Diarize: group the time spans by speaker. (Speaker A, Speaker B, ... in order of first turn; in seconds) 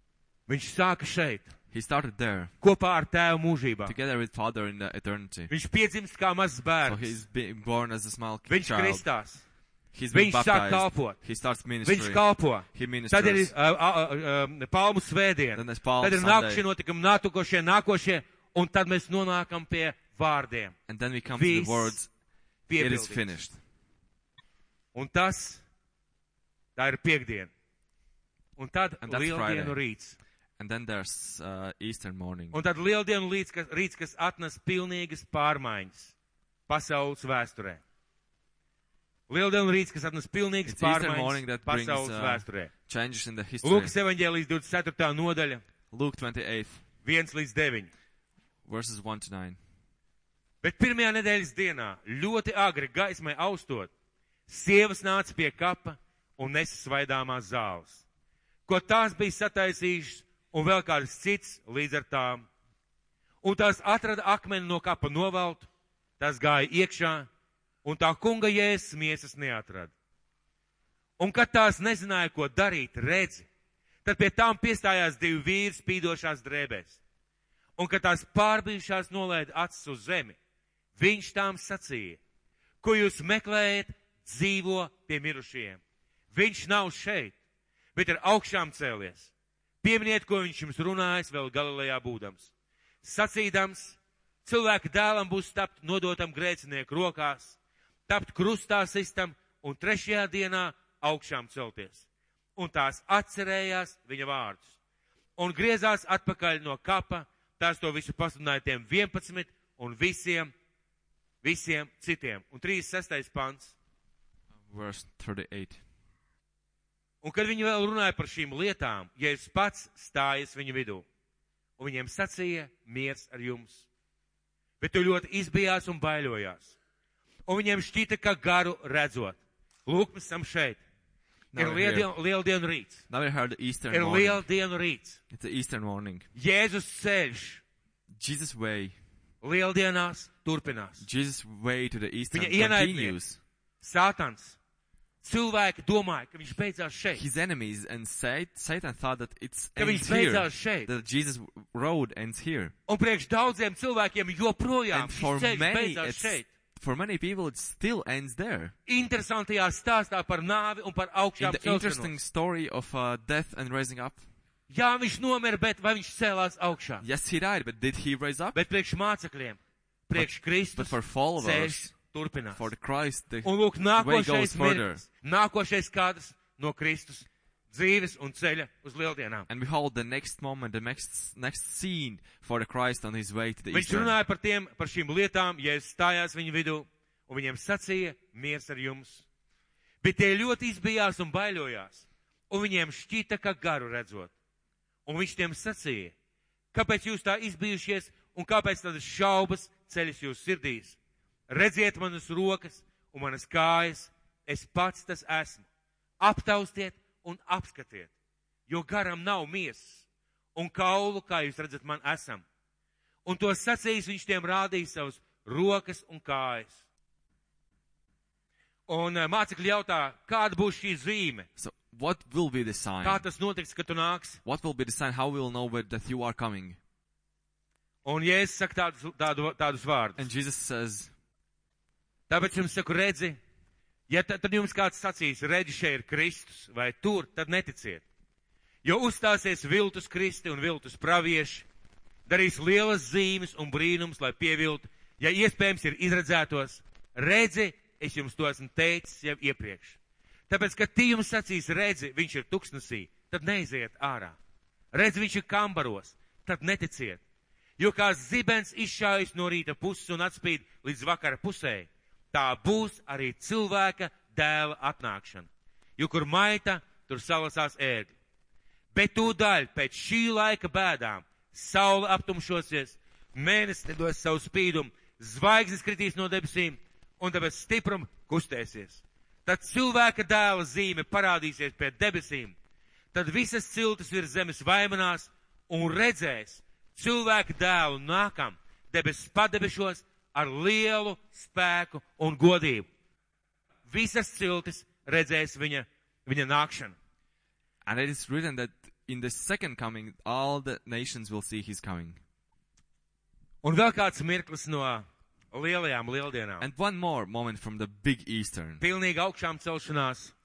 Speaker A: 0.5-1.5, 2.6-4.0, 5.5-7.2, 8.5-9.4, 10.1-11.2, 11.8-20.8, 21.4-22.0, 22.7-23.4, 24.9-25.6, 26.8-27.5, 28.6-30.2, 32.5-36.1, 36.7-37.8, 39.3-42.7, 43.6-45.6, 47.0-47.9, 50.6-53.9, 54.5-58.0, 58.7-62.5, 63.4-65.7, 66.2-67.3, 67.8-69.9, 71.2-73.5, 74.0-77.0, 77.8-80.4, 81.0-82.2, 82.8-85.8, 86.3-87.3, 88.0-89.3, 89.8-92.5, 93.0-97.6, 98.1-102.0, 102.6-104.8, 105.4-110.5, 111.4-113.8, 117.2-121.0, 121.8-123.9, 124.8-126.8, 127.5-130.8, 131.6-133.0, 133.9-135.2, 136.3-137.6, 139.4-141.1, 142.3-143.2, 143.8-144.6, 145.2-147.2, 149.8-150.9, 152.9-156.5, 158.9-162.2, 164.7-167.1, 168.5-172.7, 173.4-179.5, 183.7-189.2, 190.0-194.3, 195.1-196.1, 196.7-201.0, 201.5-205.7, 206.2-208.1, 208.7-212.4, 213.2-216.8, 218.9-221.5, 223.0-224.4, 228.1-230.3, 232.3-233.4, 234.1-238.0, 238.8-241.7, 242.3-250.0, 250.5-254.4, 254.9-257.2, 257.8-268.1, 268.9-282.6, 283.1-292.9, 293.9-297.0, 303.6-306.7, 308.8-310.3
Speaker B: 1.7-2.5, 3.9-5.5, 6.9-9.1, 9.9-13.5, 15.6-16.6, 20.9-22.1, 22.8-23.6, 29.0-29.8, 30.6-32.6, 40.6-43.9, 45.9-46.8, 48.6-49.6, 114.7-115.8, 131.5-132.1, 133.1-134.4, 135.3-136.3, 138.1-139.0, 141.0-143.4, 147.2-152.7, 154.9-158.7, 161.4-164.2, 167.0-168.6, 170.2-171.9, 172.6-175.0, 179.5-184.2, 221.6-223.2, 224.4-226.8, 230.2-231.1, 297.9-302.2, 306.6-308.8